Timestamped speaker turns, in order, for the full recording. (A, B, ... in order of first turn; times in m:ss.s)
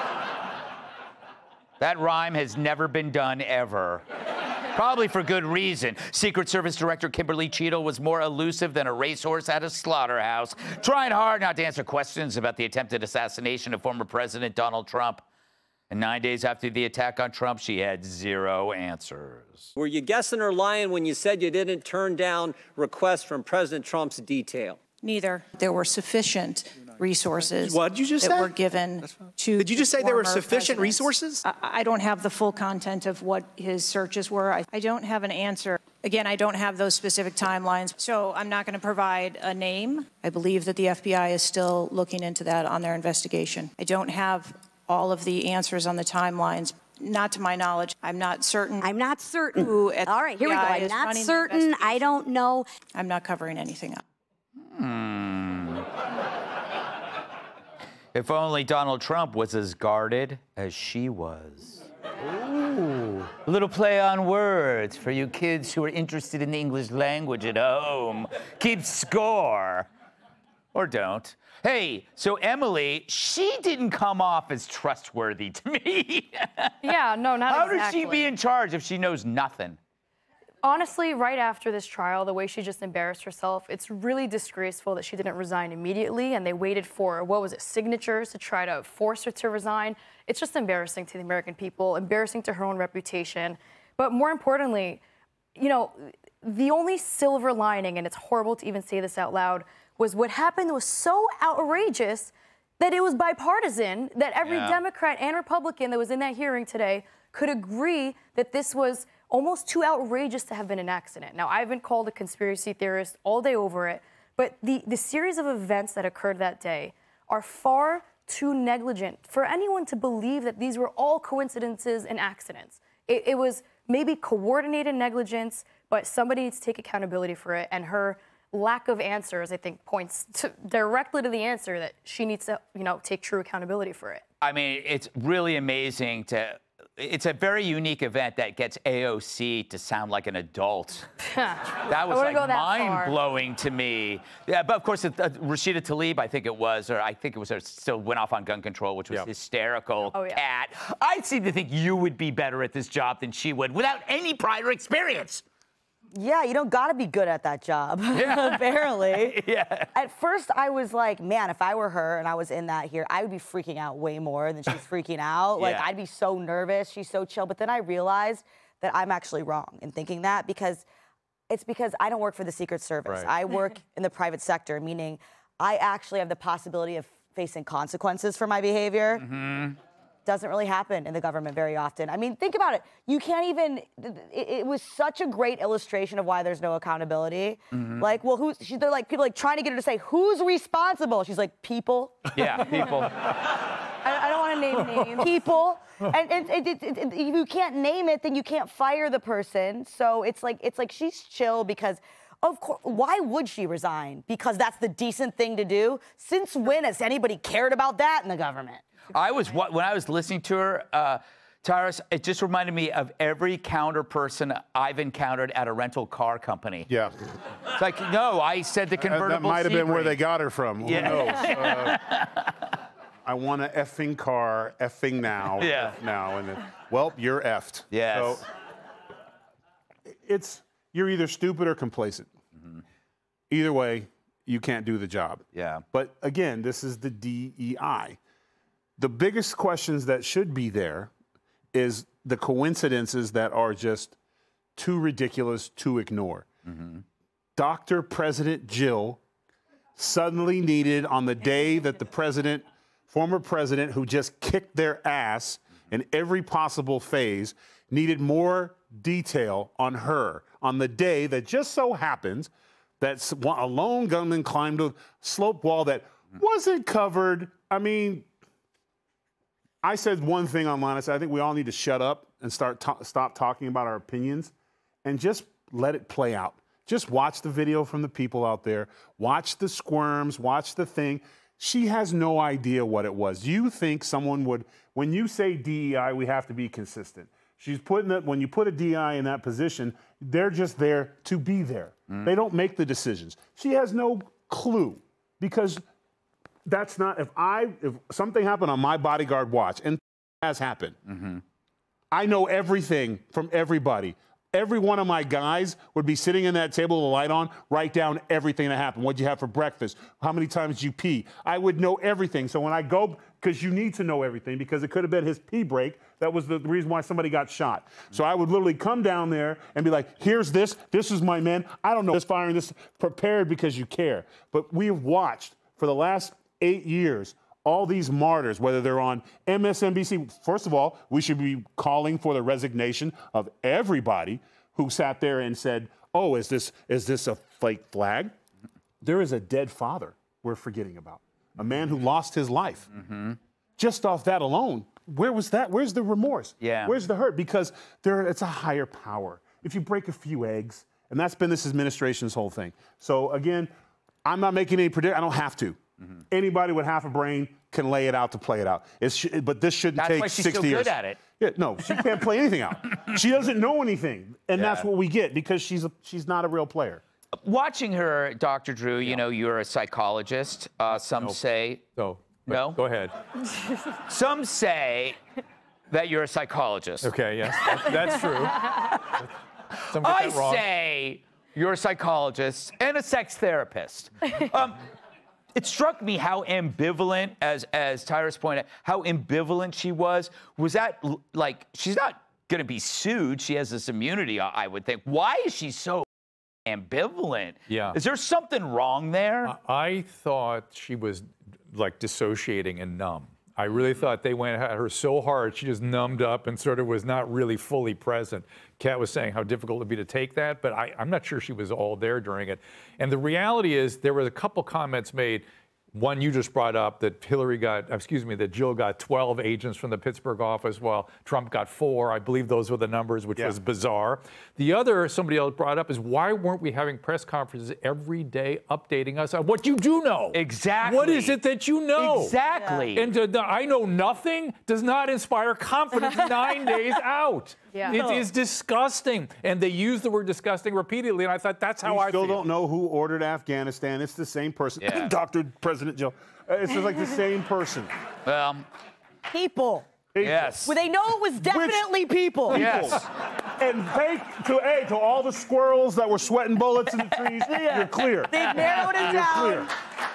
0:01.8-0:04.0 A
0:04.7-0:15.2 A
0:15.9-0:19.7 A
0:19.8-0:24.8 B
0:25.0-0:48.9 C
0:27.6-0:28.5 B
0:29.6-0:31.4 B
0:48.8-0:52.6 D
0:49.5-0:52.2 C
0:52.9-0:54.0 C
0:54.6-0:55.8 A
0:58.1-1:09.9 A
1:10.7-1:16.9 A
1:16.8-1:18.3 E
1:17.5-1:19.8 A
1:20.6-1:35.0 E
1:35.6-2:14.2 E
1:44.4-1:44.8 A
2:14.4-2:21.1 A
2:21.3-2:23.2 E
2:21.9-2:35.4 A
2:30.1-2:30.4 E
2:36.1-2:39.4 F
2:38.1-2:39.9 A
2:39.9-2:50.8 F
2:45.6-2:45.9 A
2:51.5-2:59.3 F
2:59.2-2:59.7 A
3:00.2-3:12.4 F
3:07.7-3:08.0 A
3:12.3-3:13.2 A
3:14.0-3:28.8 F
3:14.7-3:15.1 E
3:29.1-3:36.9 A
3:36.9-3:37.1 G
3:37.7-3:40.2 A
3:39.0-3:42.0 G
3:40.8-3:42.6 A
3:43.2-3:48.4 G
3:45.6-3:46.0 A
3:47.9-3:48.4 A
3:50.2-3:52.3 G
3:53.5-3:58.2 G
3:55.5-3:55.8 A
3:59.0-4:01.1 G
4:01.7-4:04.1 G
4:04.8-4:06.5 G
4:07.6-4:09.2 G
4:10.0-4:28.3 G
4:29.8-4:34.5 G
4:35.0-4:55.8 G
4:56.6-5:01.0 G
5:01.1-5:01.4 A
5:02.1-5:38.3 G
5:39.0-5:42.9 G
5:42.9-5:43.4 A
5:43.8-5:53.7 G
5:46.6-5:46.9 A
5:54.2-5:55.8 G
5:56.3-6:07.0 G
6:00.0-6:01.2 A
6:04.5-6:04.9 A
6:07.4-6:11.8 A
6:11.0-6:11.4 H
6:12.0-6:13.1 H
6:12.5-6:12.8 A
6:13.9-6:15.2 A
6:15.9-6:17.9 A
6:17.0-6:19.3 H
6:18.6-6:19.2 A
6:19.9-6:20.6 H
6:20.0-6:24.8 A
6:25.5-6:36.0 A
6:36.7-6:39.5 A
6:37.7-6:38.0 H
6:39.4-7:12.4 H
6:43.7-6:44.1 A
7:10.3-7:11.4 A
7:11.9-7:13.0 A
7:12.5-7:12.9 F
7:12.9-7:22.4 H
7:17.7-7:18.0 E
7:17.9-7:18.3 F
7:21.8-7:27.9 G
7:24.8-7:25.1 A
7:28.2-7:28.6 A
7:29.3-7:29.9 F
7:30.1-7:30.6 G
7:30.2-7:30.7 A
7:30.6-7:32.8 F
7:31.4-7:31.9 G
7:32.4-7:39.7 G
7:32.5-7:33.0 A
7:37.3-7:39.7 F
7:38.4-7:39.3 A